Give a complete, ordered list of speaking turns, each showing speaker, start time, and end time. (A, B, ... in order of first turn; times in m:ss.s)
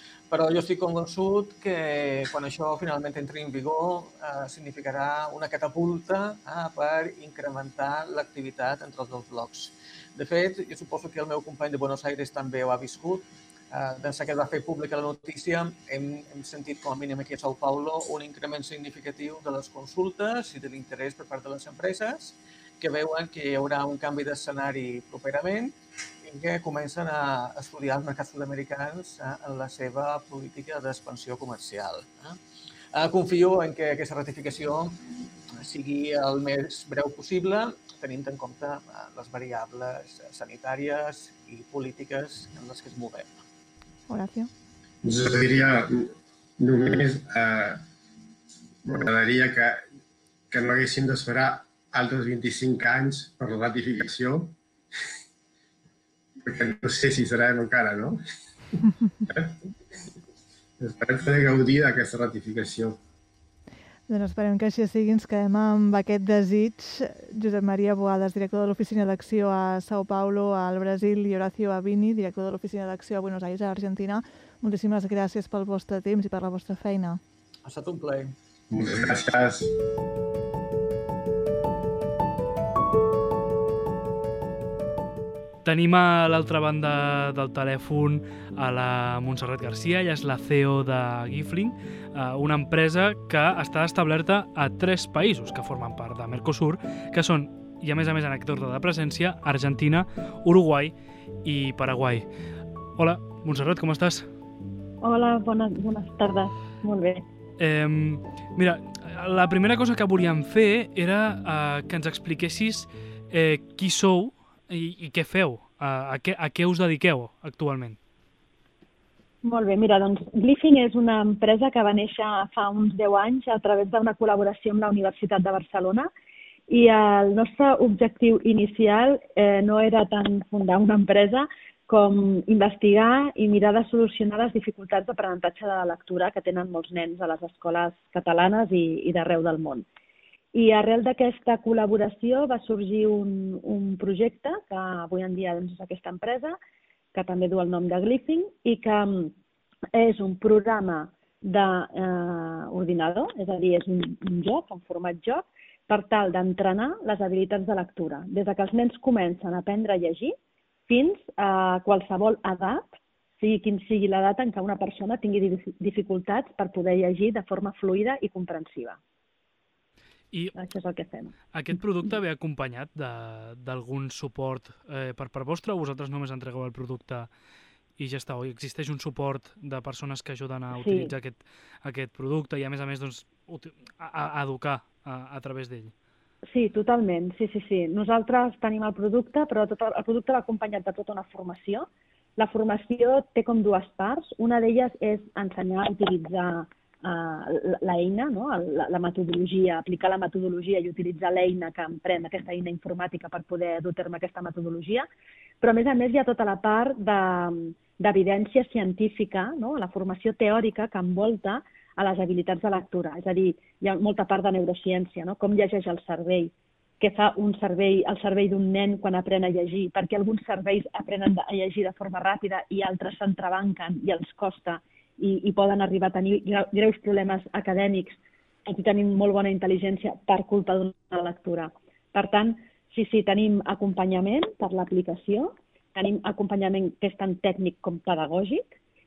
0:00.3-0:32.4 A
0:32.9-0:43.3 A
0:44.1-0:44.5 B
0:45.0-0:47.8 C
0:48.8-0:49.8 C
0:50.5-0:54.6 C
0:56.4-0:58.2 C
0:59.2-1:00.0 C
1:00.8-1:03.0 C
1:04.1-1:17.2 B
1:17.6-1:18.3 A
1:18.7-1:19.7 C
1:25.6-1:42.3 D
1:43.0-1:44.3 D
1:45.0-1:47.2 E
1:47.6-1:58.0 D
1:59.4-2:06.1 E
2:06.7-2:19.8 E
2:20.5-2:26.6 E
2:27.1-2:29.3 E
2:29.9-2:40.4 E
2:40.9-2:49.0 E
2:50.5-2:51.3 E
2:51.5-2:57.3 D
2:58.0-3:05.9 D
3:00.8-3:01.1 E
3:06.5-3:25.1 E
3:25.6-3:58.7 E